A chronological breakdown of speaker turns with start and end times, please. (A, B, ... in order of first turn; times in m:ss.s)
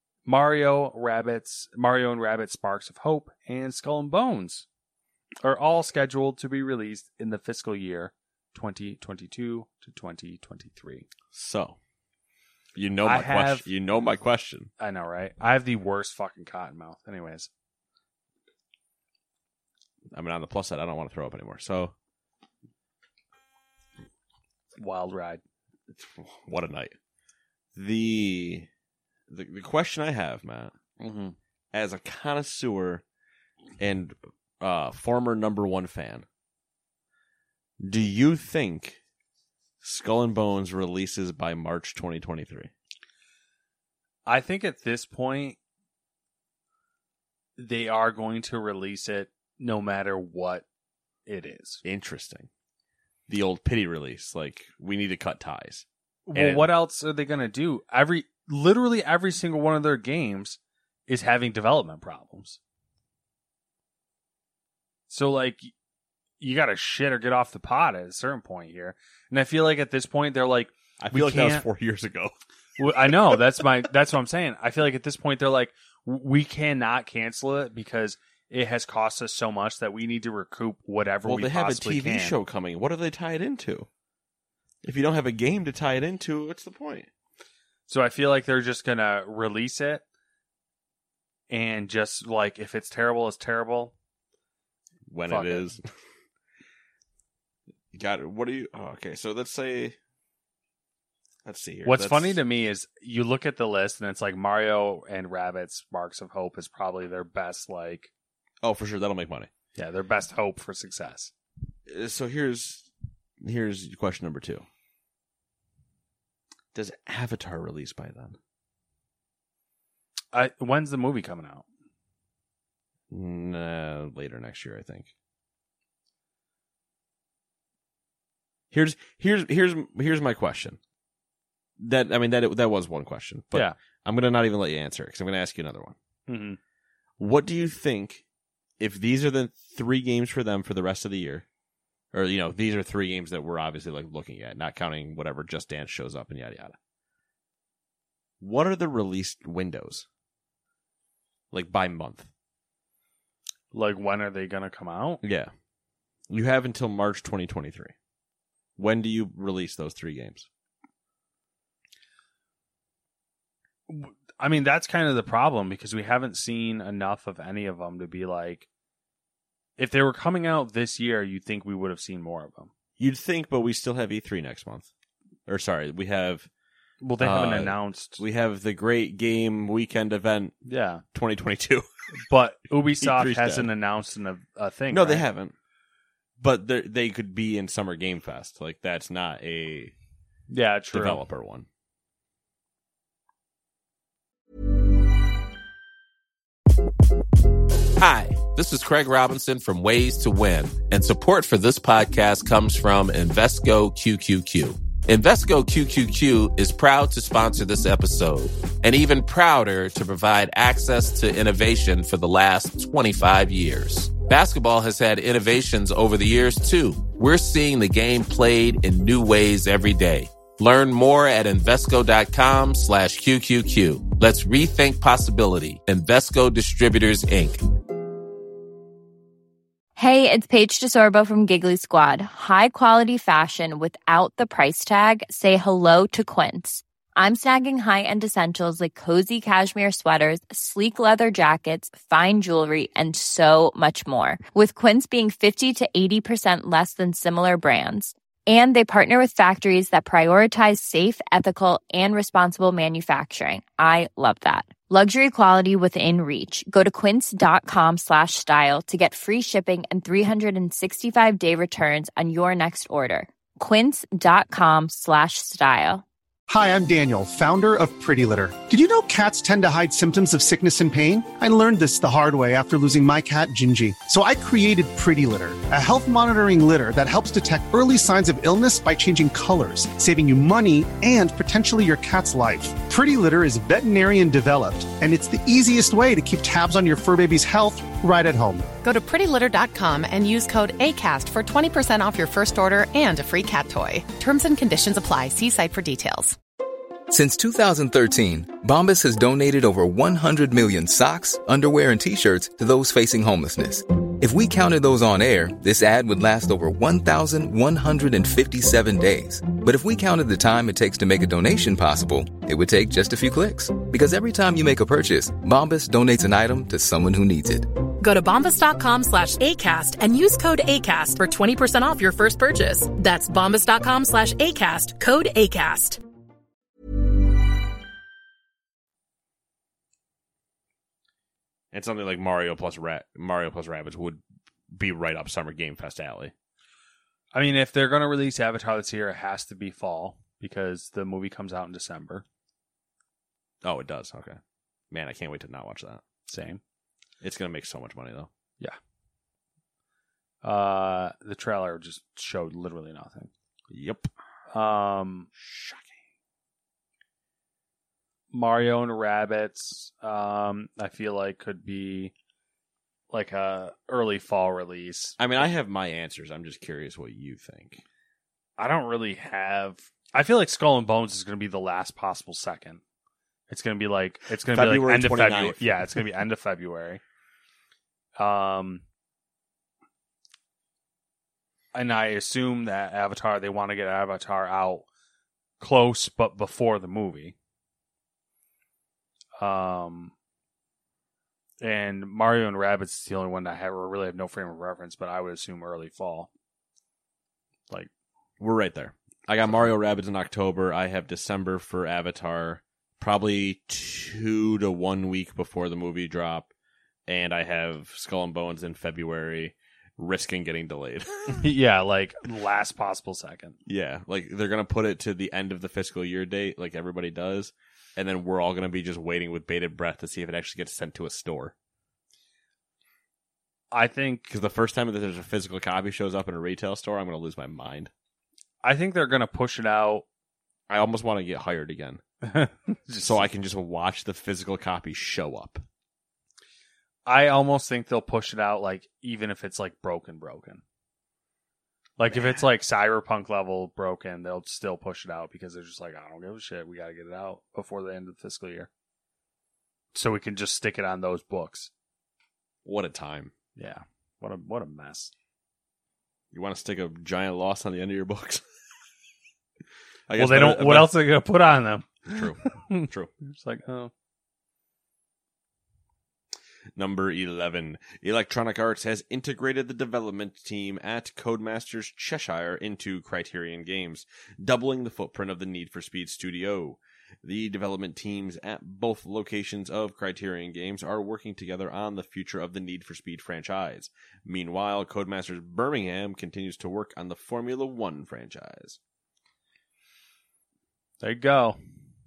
0:00.2-0:04.6 A
0:05.4-0:11.0 A
0:11.3-0:11.8 B
0:12.7-0:14.7 B
0:13.0-0:13.7 A
0:14.8-0:17.5 A
0:20.1-0:21.9 B
0:24.8-0:25.4 A
0:25.9-0:26.9 B
0:27.7-0:28.7 B
0:29.3-0:30.7 B
0:31.0-0:31.4 A
0:31.7-0:33.0 B
0:33.8-0:36.2 B
0:37.8-0:39.0 B
0:39.8-0:42.7 B
0:44.2-0:45.6 A
0:47.6-0:50.6 A
0:51.2-0:51.8 A
0:51.8-0:52.5 B
0:53.3-0:56.7 B
0:56.3-1:02.6 A
1:05.1-1:05.7 A
1:06.4-1:11.6 A
1:11.0-1:12.3 B
1:12.8-1:22.4 A
1:21.2-1:23.9 B
1:24.8-1:27.1 B
1:27.9-1:30.0 A
1:31.5-1:33.9 A
1:35.1-1:35.8 B
1:35.3-1:35.7 A
1:37.9-1:40.0 B
1:41.4-1:42.4 B
1:41.8-1:48.1 A
1:48.6-1:49.5 B
1:49.8-1:51.3 A
1:51.9-1:52.9 B
1:53.4-1:54.6 B
1:56.7-1:58.4 B
2:00.3-2:01.6 A
2:03.1-2:05.1 B
2:08.7-2:10.8 B
2:11.8-2:16.0 B
2:16.3-2:16.6 A
2:17.2-2:18.2 B
2:18.8-2:21.4 B
2:22.1-2:26.8 B
2:28.4-2:30.0 B
2:31.5-2:32.3 B
2:33.7-2:35.2 A
2:35.2-2:35.5 B
2:36.3-2:37.9 B
2:38.8-2:40.5 B
2:43.9-2:48.6 A
2:49.8-2:52.7 A
2:53.0-2:54.9 B
2:55.5-2:56.5 B
2:57.0-2:58.2 A
2:57.2-3:00.6 B
3:00.6-3:01.0 A
3:01.1-3:01.9 B
3:02.1-3:05.2 A
3:03.0-3:03.7 B
3:04.9-3:05.5 B
3:06.4-3:09.9 B
3:10.5-3:11.2 A
3:10.9-3:11.7 B
3:18.0-3:47.6 C
3:50.0-4:26.0 D
4:26.5-4:48.7 E
4:48.8-4:56.4 F
4:57.1-5:17.7 G
5:18.0-5:26.0 H
5:31.7-5:36.3 B
5:37.3-5:42.2 A
5:43.6-5:44.4 B
5:44.9-5:46.0 B
5:46.3-5:46.6 A
5:47.2-5:48.3 B
5:50.4-5:53.3 A
5:53.7-5:54.1 B
5:54.5-5:55.3 A
5:55.4-5:55.9 B
5:58.3-6:02.1 A
6:03.1-6:05.2 A
6:05.2-6:07.8 B
6:08.6-6:12.8 A
6:13.5-6:17.0 A
6:14.5-6:16.0 B
6:18.2-6:18.8 A
6:21.7-6:24.8 A
6:25.6-6:27.3 A
6:29.4-6:30.1 A
6:31.6-6:36.3 A
6:38.4-6:46.5 B
6:47.1-6:51.4 B
6:51.3-6:53.6 A
6:53.6-7:01.5 B
7:03.7-7:04.3 A
7:04.3-7:07.9 B
7:08.6-7:10.0 A
7:10.7-7:12.0 B
7:12.2-7:13.2 A
7:13.0-7:15.6 B
7:17.0-7:20.6 A
7:22.0-7:28.7 A
7:29.9-7:31.7 A
7:32.6-7:33.3 B
7:33.6-7:35.1 A
7:36.3-7:38.4 B
7:40.1-7:41.0 B
7:40.1-7:43.9 A
7:42.1-7:43.1 B
7:46.7-8:08.8 B
8:11.0-8:11.6 A